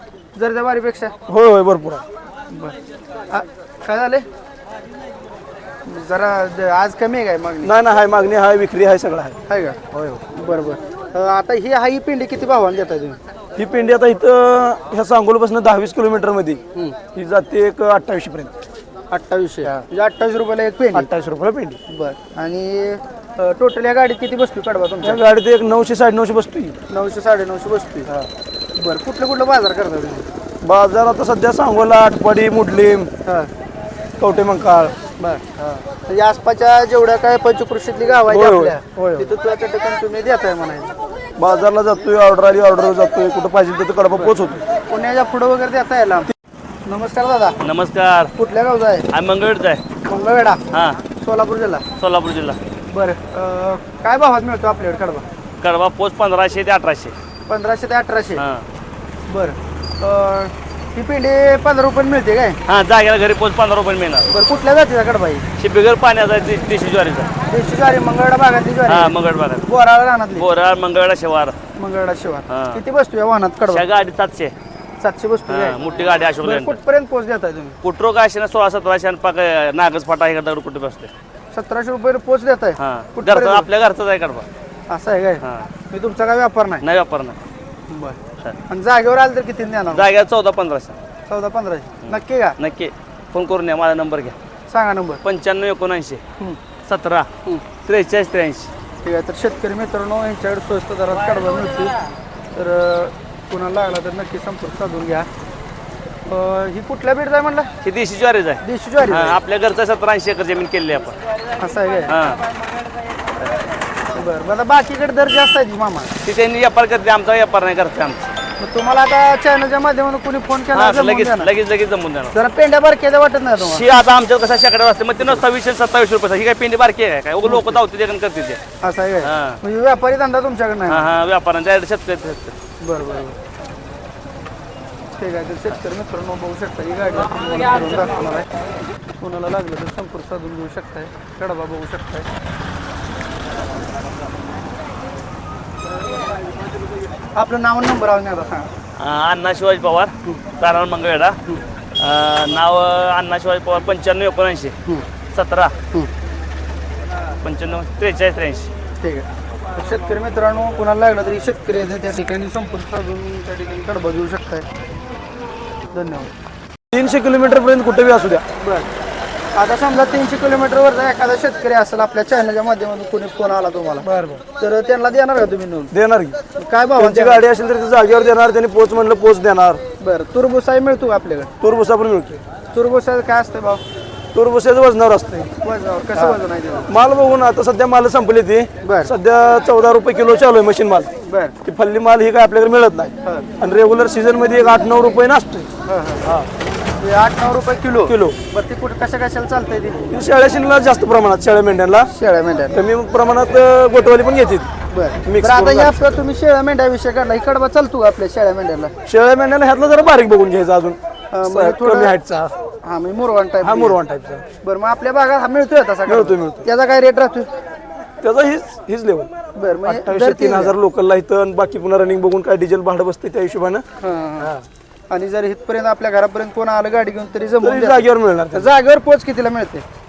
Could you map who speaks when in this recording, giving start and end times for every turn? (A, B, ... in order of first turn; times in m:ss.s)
0:00.4-0:01.1 A
0:01.3-0:02.0 B
0:02.5-0:02.8 A
0:03.3-0:04.3 A
0:05.9-0:07.7 A
0:07.6-0:09.4 B
0:09.5-0:13.2 A
0:09.9-0:10.3 B
0:13.6-0:16.6 B
0:17.1-0:18.5 B
0:19.1-0:21.1 A
0:20.9-0:21.8 B
0:21.9-0:25.2 A
0:25.0-0:26.8 B
0:26.9-0:28.1 A
0:28.8-0:30.3 A
0:30.6-0:33.1 B
0:33.2-0:33.5 A
0:34.2-0:34.9 B
0:35.2-0:40.9 A
0:38.3-0:39.3 B
0:41.4-0:44.6 B
0:44.9-0:46.3 A
0:46.9-0:47.6 A
0:47.6-0:48.3 C
0:48.4-0:49.1 A
0:49.1-0:49.8 C
0:50.0-0:51.8 A
0:50.7-0:51.0 C
0:52.0-0:52.6 C
0:52.9-0:55.2 A
0:55.6-0:57.2 C
0:57.5-0:58.4 A
0:58.4-0:58.6 C
0:59.3-1:02.6 A
1:02.7-1:04.3 C
1:04.3-1:05.4 A
1:05.6-1:07.3 C
1:07.5-1:10.5 A
1:08.9-1:09.7 C
1:10.4-1:11.6 C
1:11.8-1:13.9 A
1:12.5-1:12.8 C
1:13.7-1:14.5 C
1:15.0-1:15.8 A
1:15.5-1:16.8 C
1:16.4-1:17.8 A
1:17.8-1:21.1 C
1:21.5-1:23.7 A
1:22.8-1:24.5 C
1:24.9-1:26.8 A
1:25.4-1:25.7 C
1:26.8-1:27.4 C
1:27.9-1:30.1 A
1:29.9-1:31.0 C
1:31.3-1:32.6 A
1:32.0-1:34.4 C
1:34.7-1:35.2 A
1:35.2-1:36.2 C
1:36.8-1:37.3 C
1:37.8-1:38.7 C
1:39.0-1:42.0 A
1:42.6-1:45.3 A
1:46.3-1:47.7 A
1:47.8-1:51.2 C
1:48.6-1:49.4 A
1:51.6-1:52.2 A
1:52.1-1:52.4 C
1:54.1-1:56.2 A
1:56.2-1:58.3 C
1:58.6-2:01.5 A
2:00.7-2:02.4 C
2:02.3-2:03.9 A
2:03.6-2:08.6 C
2:07.4-2:07.8 A
2:08.8-2:11.1 A
2:09.2-2:09.6 C
2:10.9-2:12.6 C
2:12.8-2:13.4 A
2:15.2-2:18.5 A
2:19.2-2:22.3 A
2:27.4-2:28.7 A
2:29.0-2:31.4 C
2:32.0-2:34.7 C
2:35.3-2:35.7 C
2:37.4-2:38.7 C
2:39.0-2:44.7 A
2:45.9-2:46.3 A
2:46.9-2:48.4 B
2:48.6-2:48.9 A
2:49.6-2:55.9 A
2:54.0-2:54.4 B
2:55.9-2:56.4 B
2:56.6-2:57.5 A
2:57.0-2:59.8 B
3:00.0-3:01.5 A
3:01.6-3:02.4 B
3:02.7-3:03.8 A
3:04.3-3:05.5 B
3:05.6-3:06.9 A
3:06.2-3:11.1 B
3:08.8-3:09.1 A
3:11.3-3:11.6 A
3:11.6-3:15.7 B
3:13.2-3:13.6 A
3:15.9-3:16.3 A
3:16.2-3:16.5 B
3:17.0-3:20.2 A
3:18.1-3:18.4 B
3:20.1-3:22.1 B
3:22.1-3:22.8 A
3:22.7-3:24.7 B
3:24.9-3:28.9 A
3:25.2-3:26.0 B
3:29.1-3:32.5 B
3:31.3-3:32.1 A
3:32.8-3:34.0 A
3:33.6-3:34.5 B
3:34.6-3:37.5 A
3:36.1-3:36.7 B
3:38.2-3:39.3 B
3:39.6-3:40.8 A
3:39.8-3:43.8 B
3:44.0-3:44.5 A
3:44.4-3:44.6 B
3:45.1-3:49.8 A
3:47.6-3:48.7 B